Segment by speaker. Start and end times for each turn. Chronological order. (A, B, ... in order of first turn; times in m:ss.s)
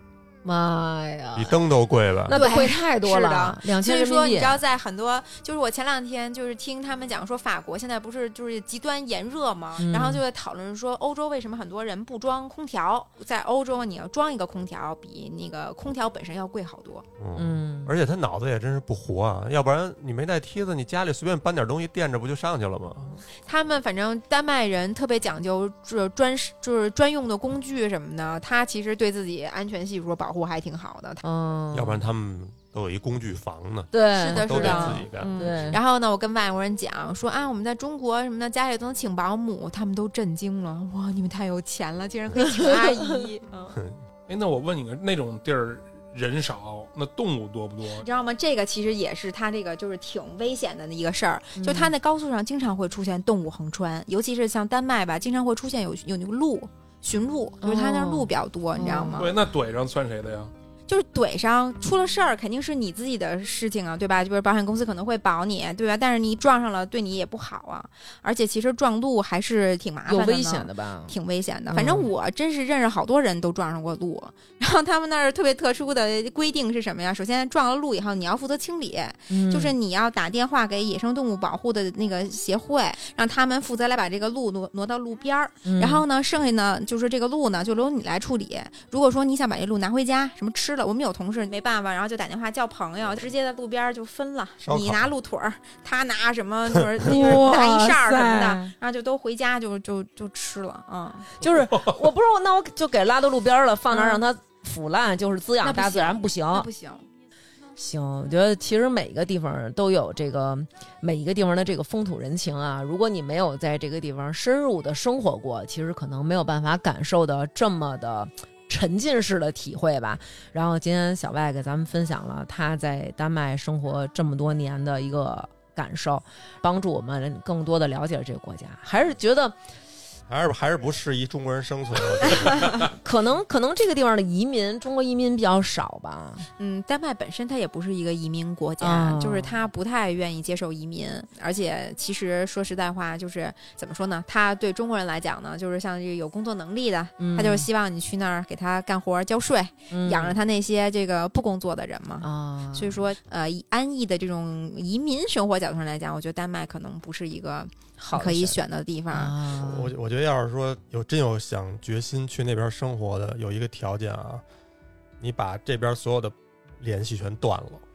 0:00.4-0:01.6 A
0:01.3-0:02.4 B
0:02.3-0:04.6 A
0:02.3-0:17.0 C
0:09.8-0:10.2 A
0:17.2-0:23.2 B
0:17.4-0:17.9 A
0:23.4-0:31.2 C
0:31.2-0:32.0 A
0:31.7-0:35.7 B
0:33.9-0:35.8 A
0:34.1-0:43.8 C
0:42.4-0:43.1 A
0:44.3-0:48.0 D
0:48.0-0:59.3 C
0:51.6-0:51.9 A
0:57.6-0:59.2 A
0:59.1-1:00.5 D
1:00.9-1:41.3 C
1:10.1-1:11.1 A
1:11.7-1:12.1 A
1:19.3-1:19.7 A
1:25.6-1:26.0 A
1:34.6-1:35.1 B
1:37.0-1:38.7 A
1:41.4-1:46.7 A
1:41.7-1:42.0 D
1:43.9-1:44.2 C
1:45.6-1:47.0 C
1:47.8-2:09.6 A
2:10.3-2:12.9 B
2:12.3-2:12.8 C
2:12.9-2:16.5 A
2:16.6-2:39.4 C
2:18.8-2:19.6 A
2:27.2-2:27.7 A
2:29.9-2:30.4 A
2:32.2-2:33.0 A
2:38.0-2:38.6 A
2:39.1-2:39.9 A
2:39.6-2:44.4 B
2:45.2-2:47.8 B